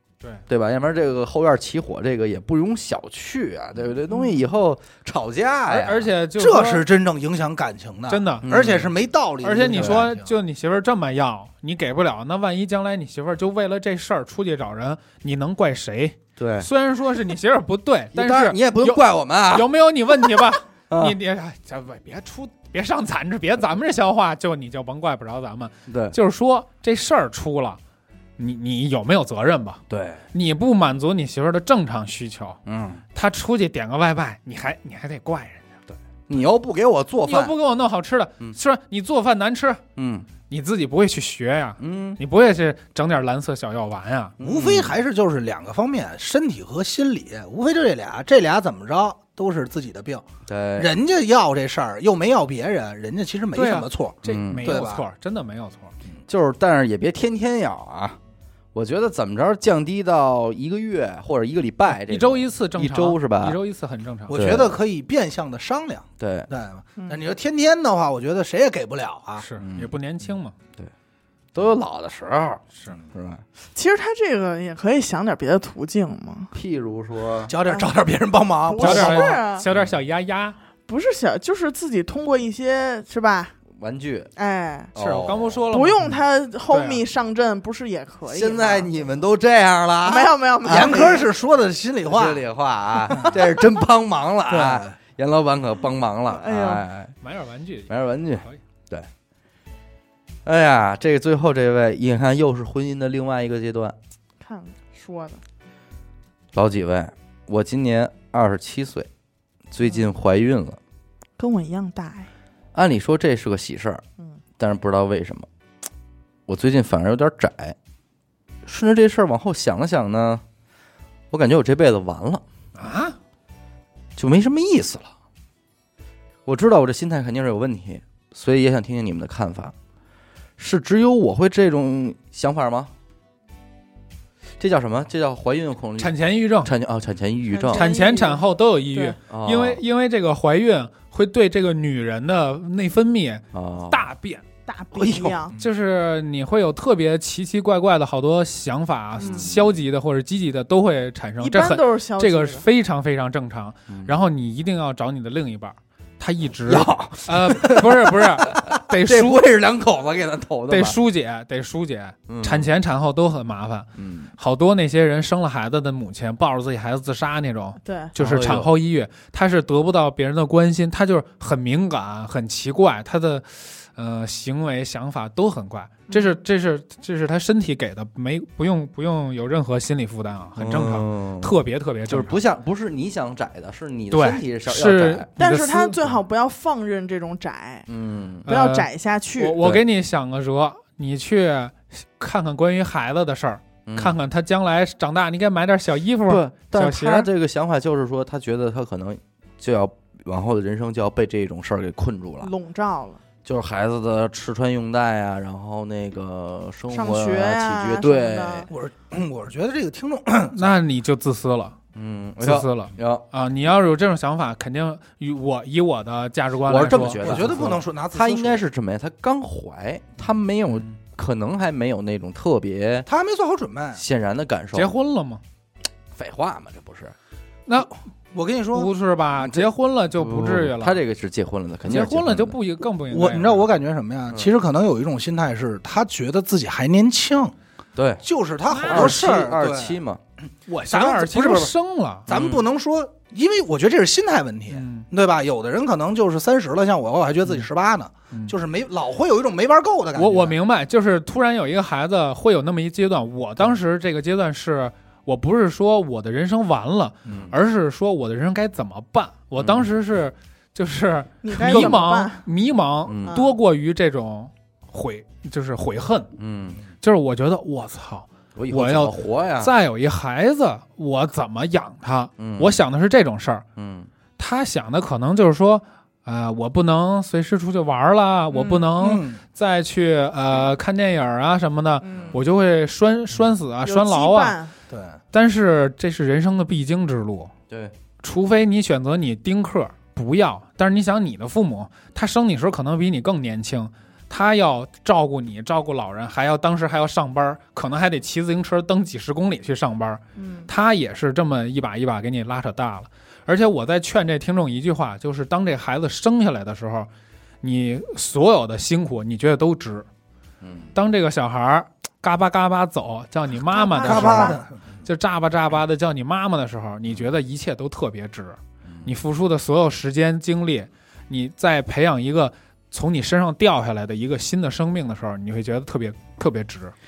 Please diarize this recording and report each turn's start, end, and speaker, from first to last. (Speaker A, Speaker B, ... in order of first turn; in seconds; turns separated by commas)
Speaker A: 0.5-6.1, Speaker B: 5.7-6.8, Speaker C: 6.3-10.3, Speaker B: 8.1-8.5, Speaker A: 8.4-8.9, Speaker B: 9.4-27.8, Speaker A: 9.7-10.1, Speaker A: 16.4-16.7, Speaker A: 18.1-19.7, Speaker A: 20.9-21.1, Speaker A: 25.9-26.1, Speaker B: 28.4-29.8, Speaker A: 29.9-30.2, Speaker B: 30.3-32.6, Speaker A: 32.6-33.0, Speaker B: 33.1-35.8, Speaker A: 36.3-37.5, Speaker B: 37.2-39.8, Speaker A: 40.0-40.3, Speaker B: 40.5-44.3, Speaker A: 41.8-42.2, Speaker A: 44.4-45.0, Speaker C: 44.4-50.2, Speaker A: 50.5-50.9, Speaker C: 50.8-55.0, Speaker B: 53.5-55.9, Speaker A: 54.2-54.9, Speaker A: 56.3-58.2, Speaker A: 58.7-63.6, Speaker B: 61.9-64.4, Speaker C: 64.3-69.4, Speaker A: 64.3-64.8, Speaker A: 66.2-66.5, Speaker D: 67.0-67.2, Speaker B: 69.4-70.5, Speaker A: 69.6-69.9, Speaker A: 71.5-73.4, Speaker D: 73.7-76.5, Speaker A: 76.5-77.5, Speaker C: 77.5-79.4, Speaker D: 78.6-79.7, Speaker B: 78.8-80.5, Speaker D: 80.9-83.5, Speaker A: 83.7-84.3, Speaker D: 84.3-84.9, Speaker A: 84.9-85.6, Speaker B: 85.0-86.1, Speaker D: 85.7-88.9, Speaker B: 86.7-87.0, Speaker A: 88.3-91.1, Speaker D: 90.0-91.3, Speaker C: 90.6-92.4, Speaker A: 92.1-97.1, Speaker C: 93.1-93.3, Speaker C: 94.5-94.9, Speaker D: 96.3-96.8, Speaker B: 97.2-98.6, Speaker A: 97.9-99.1, Speaker A: 100.4-104.0, Speaker D: 104.4-105.4, Speaker A: 106.5-109.1, Speaker A: 109.7-110.8, Speaker D: 111.4-112.3, Speaker A: 112.7-114.0, Speaker A: 114.6-115.5, Speaker A: 116.5-117.8, Speaker A: 118.6-120.4, Speaker A: 121.3-122.4, Speaker B: 122.8-123.2, Speaker A: 124.2-125.1, Speaker A: 126.5-129.7, Speaker A: 130.6-132.9, Speaker A: 134.6-137.9, Speaker B: 136.0-136.7, Speaker D: 137.5-139.2, Speaker B: 137.7-144.4, Speaker A: 139.3-139.8, Speaker A: 143.5-144.1, Speaker D: 144.7-145.5, Speaker A: 144.9-145.4, Speaker B: 145.6-159.4, Speaker D: 149.2-149.5, Speaker A: 149.2-149.7, Speaker D: 151.4-152.6, Speaker A: 153.9-154.1, Speaker A: 156.7-161.0, Speaker B: 160.7-182.4, Speaker A: 162.3-162.7, Speaker A: 163.9-164.3, Speaker D: 167.8-168.1, Speaker A: 168.2-168.7, Speaker A: 180.6-185.3, Speaker B: 184.1-186.1, Speaker D: 185.4-187.9, Speaker A: 187.9-188.5, Speaker D: 188.5-189.6, Speaker B: 188.5-197.3, Speaker A: 193.8-194.2, Speaker A: 196.3-202.5, Speaker D: 202.4-203.2, Speaker A: 203.4-208.7, Speaker D: 206.9-208.7, Speaker C: 208.7-210.7, Speaker B: 210.5-211.8, Speaker A: 211.9-213.2, Speaker B: 212.4-217.5, Speaker A: 216.6-223.1, Speaker C: 217.1-218.6, Speaker C: 223.1-224.0, Speaker A: 223.9-224.9, Speaker B: 224.7-225.4, Speaker A: 226.1-227.1, Speaker B: 227.7-228.0, Speaker C: 228.3-228.9, Speaker B: 228.7-231.0, Speaker A: 229.4-232.6, Speaker B: 231.8-233.7, Speaker C: 233.1-237.5, Speaker A: 237.9-238.2, Speaker C: 238.2-240.0, Speaker B: 238.7-239.2, Speaker A: 238.9-240.2, Speaker B: 240.7-242.3, Speaker C: 240.9-241.7, Speaker A: 242.3-242.7, Speaker C: 242.3-250.6, Speaker B: 244.7-245.1, Speaker B: 250.1-266.3, Speaker A: 257.3-257.5, Speaker A: 259.6-259.9, Speaker D: 261.4-262.4, Speaker A: 261.6-262.0, Speaker A: 263.1-263.4, Speaker D: 263.2-263.6, Speaker A: 266.4-266.8, Speaker B: 267.0-273.6, Speaker A: 268.6-269.7, Speaker A: 272.4-272.8, Speaker A: 273.8-274.1, Speaker B: 274.4-284.6, Speaker D: 278.5-278.9, Speaker C: 279.0-279.4, Speaker D: 282.0-282.4, Speaker A: 282.1-282.4, Speaker D: 283.8-284.7, Speaker C: 284.9-285.2, Speaker B: 285.3-287.5, Speaker A: 287.7-287.9, Speaker B: 288.2-307.1, Speaker D: 300.4-300.7, Speaker B: 307.6-310.1, Speaker A: 310.6-310.9, Speaker B: 310.9-326.9, Speaker D: 313.7-314.6, Speaker C: 314.0-314.7, Speaker A: 318.9-319.1